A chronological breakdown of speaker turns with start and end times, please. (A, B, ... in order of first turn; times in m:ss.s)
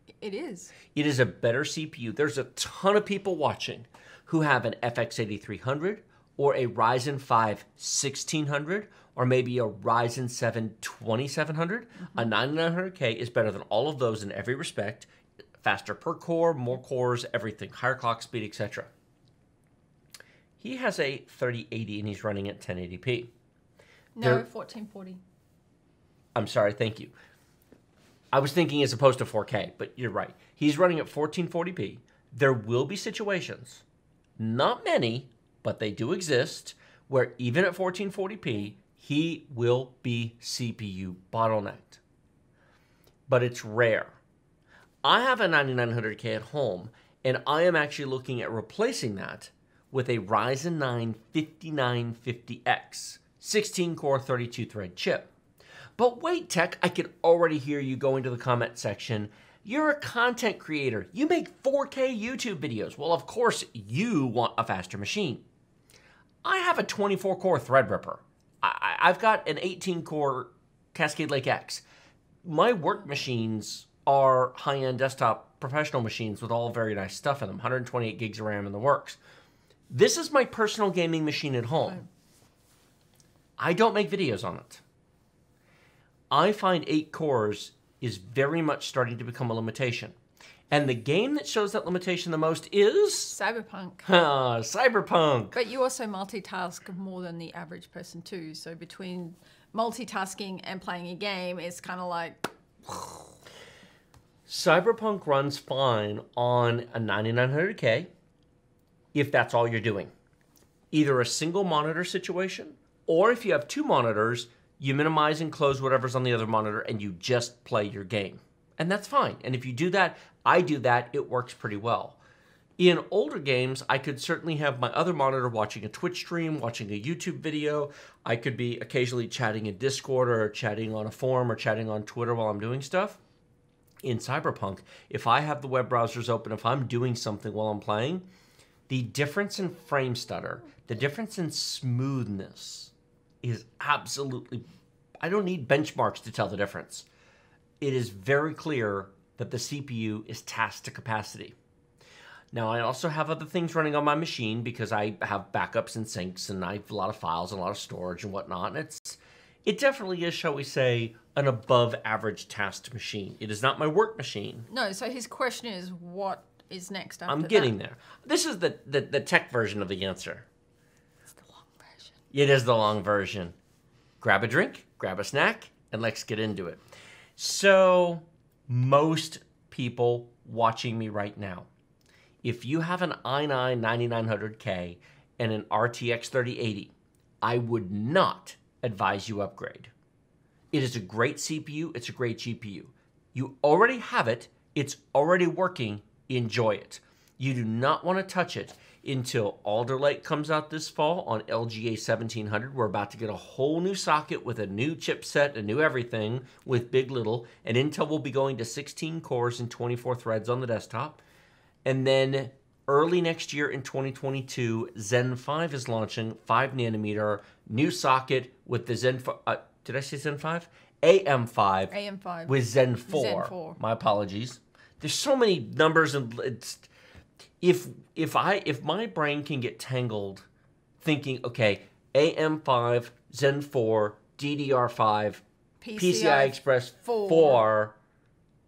0:00.2-0:00.7 A
0:00.9-0:18.9 B
0:20.6-0:23.3 B
0:24.1-0:25.2 A
0:26.3-0:27.1 B
0:28.3-0:33.8 B
0:34.4-0:42.0 B
0:43.3-0:44.2 B
0:45.0-0:55.3 B
0:56.0-1:05.4 B
1:06.4-1:11.8 B
1:12.4-1:19.2 B
1:19.9-1:22.0 B
1:23.6-1:24.8 B
1:26.3-1:30.1 B
1:30.7-1:33.4 B
1:33.3-1:34.1 A
1:34.0-1:35.6 B
1:35.5-1:43.3 A
1:44.5-1:48.1 B
1:49.1-1:50.1 B
1:50.9-2:02.2 B
2:02.8-2:13.2 B
2:14.0-2:18.2 B
2:18.9-2:24.6 B
2:25.2-2:27.1 B
2:27.8-2:31.6 B
2:32.5-2:44.7 B
2:44.7-2:47.7 A
2:47.3-2:50.4 B
2:51.4-2:52.1 A
2:52.3-2:53.6 B
2:54.2-2:56.8 B
2:57.4-3:01.7 B
3:02.4-3:09.9 B
3:10.7-3:31.2 B
3:31.8-3:41.9 B
3:41.9-3:43.8 A
3:42.5-3:46.9 B
3:47.6-3:50.5 B
3:51.0-3:55.4 B
3:55.8-3:57.6 A
3:56.0-3:58.0 B